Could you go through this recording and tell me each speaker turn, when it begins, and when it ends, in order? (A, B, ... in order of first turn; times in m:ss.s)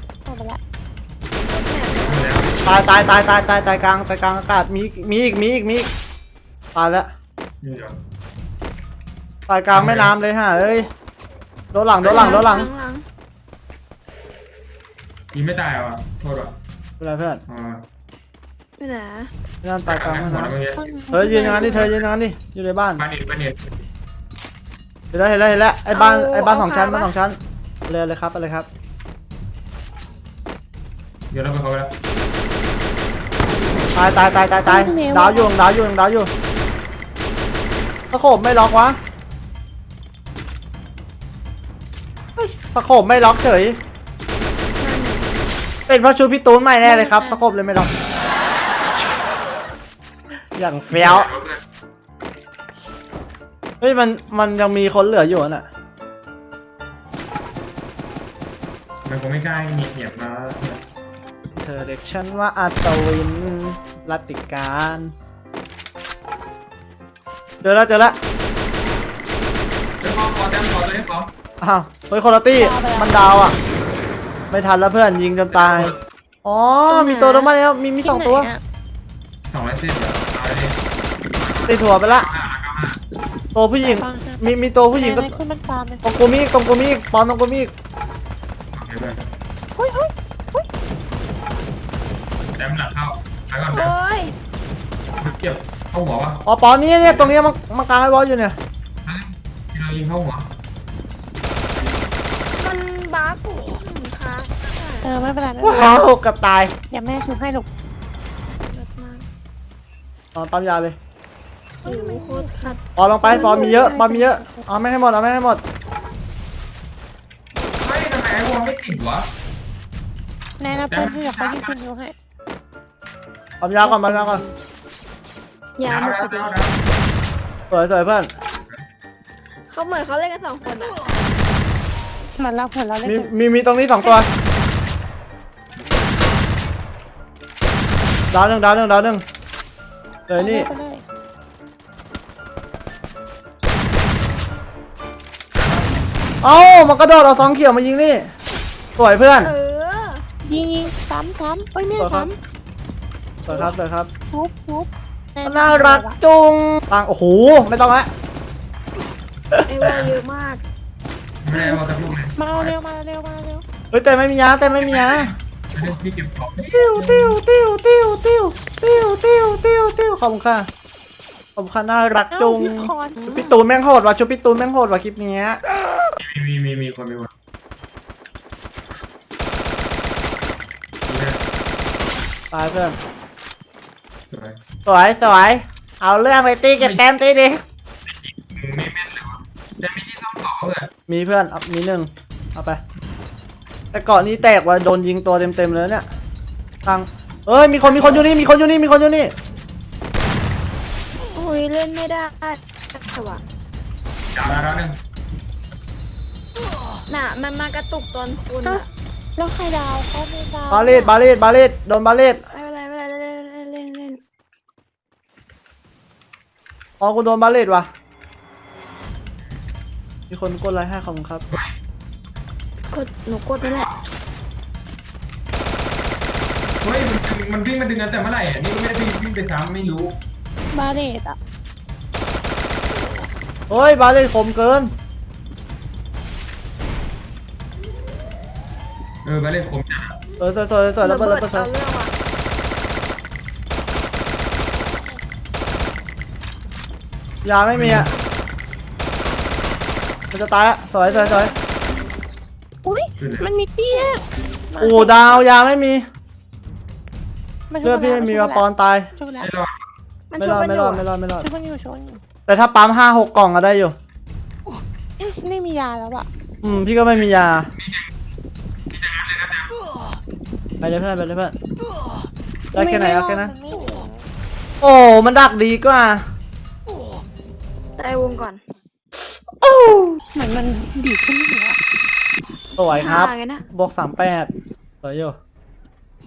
0:00.3-0:00.6 A
0:01.4-0:02.5 B
0:01.8-0:02.6 C
0:02.6-0:05.9 D
0:06.7-0:07.1 D
0:07.6-0:07.9 C
0:09.5-0:10.9 D
0:09.7-0:10.1 C
0:11.7-0:12.7 D
0:12.0-0:12.4 C
0:12.1-0:13.0 B
0:15.3-0:16.6 C
0:17.0-0:17.4 D
0:17.5-0:17.8 C
0:18.8-0:19.3 B
0:19.6-0:20.6 D
0:19.9-0:20.8 C
0:20.7-0:21.9 A
0:21.1-0:23.0 D
0:21.2-0:21.9 B
0:23.0-0:23.8 C
0:25.1-0:28.7 D
0:25.9-0:27.1 B
0:31.3-0:31.9 C
0:34.0-0:36.3 D
0:34.7-0:35.6 A
0:38.1-0:39.0 D
0:42.4-0:43.8 D
0:44.8-0:45.3 B
0:45.9-0:47.9 D
0:46.8-0:47.4 A
0:50.6-0:51.3 D
0:50.9-0:51.6 C
0:53.8-0:55.7 D
0:59.0-1:00.8 C
1:01.6-1:05.1 D
1:07.6-1:08.2 D
1:10.0-1:11.3 C
1:11.6-1:13.6 D
1:12.6-1:13.2 A
1:14.5-1:18.5 D
1:15.5-1:16.0 C
1:16.9-1:17.5 B
1:18.0-1:18.6 A
1:19.5-1:20.8 C
1:21.4-1:23.0 C
1:21.7-1:22.3 D
1:23.6-1:25.3 D
1:23.8-1:26.0 A
1:26.0-1:27.7 D
1:28.7-1:29.3 C
1:29.8-1:30.6 A
1:32.6-1:34.0 C
1:33.7-1:34.3 B
1:35.2-1:36.4 C
1:36.5-1:38.6 D
1:37.0-1:37.4 C
1:39.0-1:40.5 C
1:42.5-1:45.1 B
1:45.0-1:46.0 A
1:45.6-1:46.7 D
1:46.9-1:47.7 A
1:48.6-1:49.3 B
1:50.3-1:51.0 D
1:51.8-1:54.0 B
1:51.8-1:54.7 A
1:53.0-1:55.6 D
1:57.8-1:59.3 C
2:00.6-2:02.1 A
2:00.9-2:01.8 C
2:03.6-2:04.4 D
2:03.8-2:04.4 A
2:05.8-2:06.6 B
2:05.8-2:06.8 C
2:07.7-2:08.3 D
2:09.7-2:11.2 B
2:12.4-2:13.3 A
2:13.0-2:14.3 D
2:18.3-2:19.2 D
2:20.3-2:20.7 D
2:20.4-2:21.0 A
2:25.6-2:26.0 C
2:26.4-2:28.3 D
2:29.0-2:29.5 D
2:29.4-2:30.2 B
2:30.4-2:32.4 A
2:32.0-2:32.3 D
2:33.4-2:34.1 D
2:34.3-2:36.2 A
2:35.4-2:38.1 D
2:39.7-2:40.6 B
2:39.8-2:40.2 C
2:41.4-2:42.8 C
2:42.4-2:43.6 A
2:43.9-2:45.3 D
2:44.8-2:47.4 C
2:46.7-2:50.7 D
2:51.6-2:55.6 D
2:52.3-2:53.3 A
2:53.2-2:53.6 B
2:56.2-2:57.3 C
3:01.1-3:01.4 C
3:02.5-3:03.0 D
3:04.3-3:04.6 C
3:04.8-3:07.6 D
3:06.8-3:07.0 C
3:08.1-3:10.9 C
3:11.1-3:12.8 D
3:13.9-3:16.0 D
3:16.8-3:19.3 D
3:17.8-3:18.3 B
3:21.3-3:23.4 B
3:24.3-3:25.0 C
3:27.1-3:28.9 B
3:29.4-3:31.1 A
3:30.7-3:32.4 D
3:32.5-3:34.2 B
3:37.0-3:37.9 D
3:40.3-3:41.4 D
3:42.9-3:43.9 B
3:43.6-3:43.9 C
3:46.8-3:50.2 C
3:50.7-3:51.4 A
3:53.7-3:54.9 D
3:59.2-4:00.2 C
4:00.4-4:01.7 D
4:01.0-4:02.1 B
4:07.4-4:08.1 D
4:07.7-4:08.2 C
4:10.3-4:11.5 D
4:11.1-4:11.6 A
4:12.8-4:15.4 A
4:13.2-4:13.5 C
4:14.8-4:16.0 D
4:17.7-4:19.5 A
4:17.8-4:19.1 D
4:19.4-4:19.8 C
4:20.3-4:21.0 B
4:20.4-4:21.5 D
4:21.4-4:22.2 A
4:22.5-4:24.0 D
4:25.2-4:26.3 A
4:26.6-4:27.7 D
4:27.8-4:28.1 C
4:28.9-4:29.8 C
4:30.8-4:31.6 D
4:32.7-4:33.5 D
4:32.8-4:34.3 A
4:34.8-4:36.2 D
4:38.0-4:38.6 B
4:39.6-4:40.2 D
4:40.3-4:41.8 A
4:42.8-4:44.5 D
4:42.9-4:43.6 B
4:45.0-4:45.4 D